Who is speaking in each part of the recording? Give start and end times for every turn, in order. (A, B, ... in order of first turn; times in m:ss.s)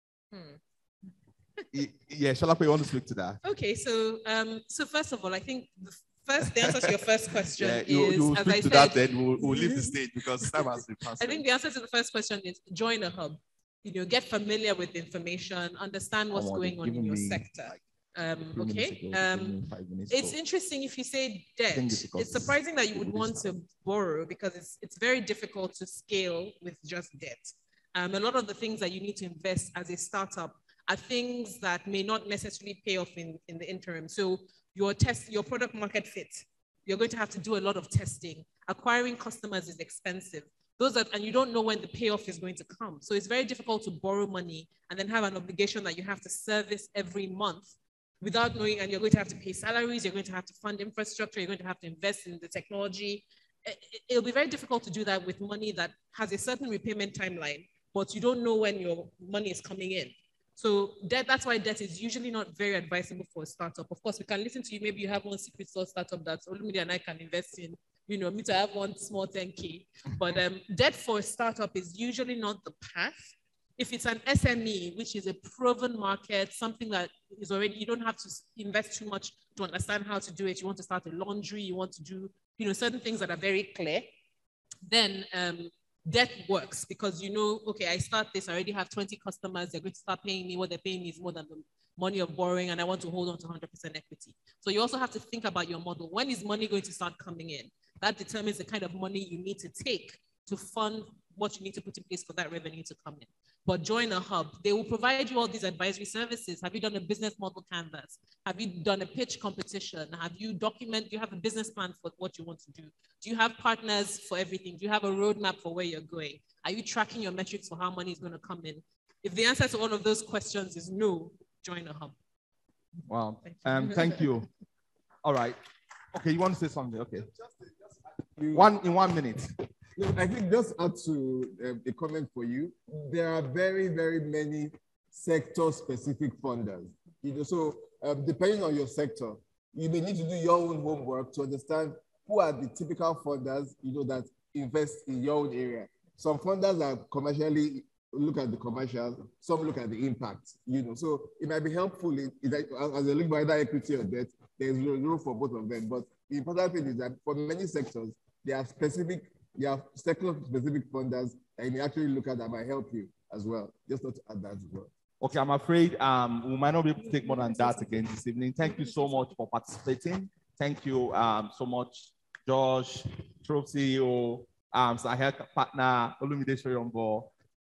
0:00.3-0:00.6 A
0:01.7-0:03.4 B
0:03.4-1:24.1 A
0:06.6-0:06.9 B
0:07.5-0:11.4 B
0:16.3-0:17.8 B
0:18.4-0:20.3 B
0:21.7-0:23.5 B
1:24.9-2:02.2 A
2:03.1-2:04.4 B
2:03.4-2:04.3 A
2:05.2-2:05.6 B
2:06.1-2:07.3 B
2:07.3-2:07.7 C
2:08.4-2:08.7 C
2:08.5-2:09.5 B
2:10.0-2:44.9 C
2:45.2-2:57.3 B
2:47.0-2:47.9 A
2:48.6-2:49.3 A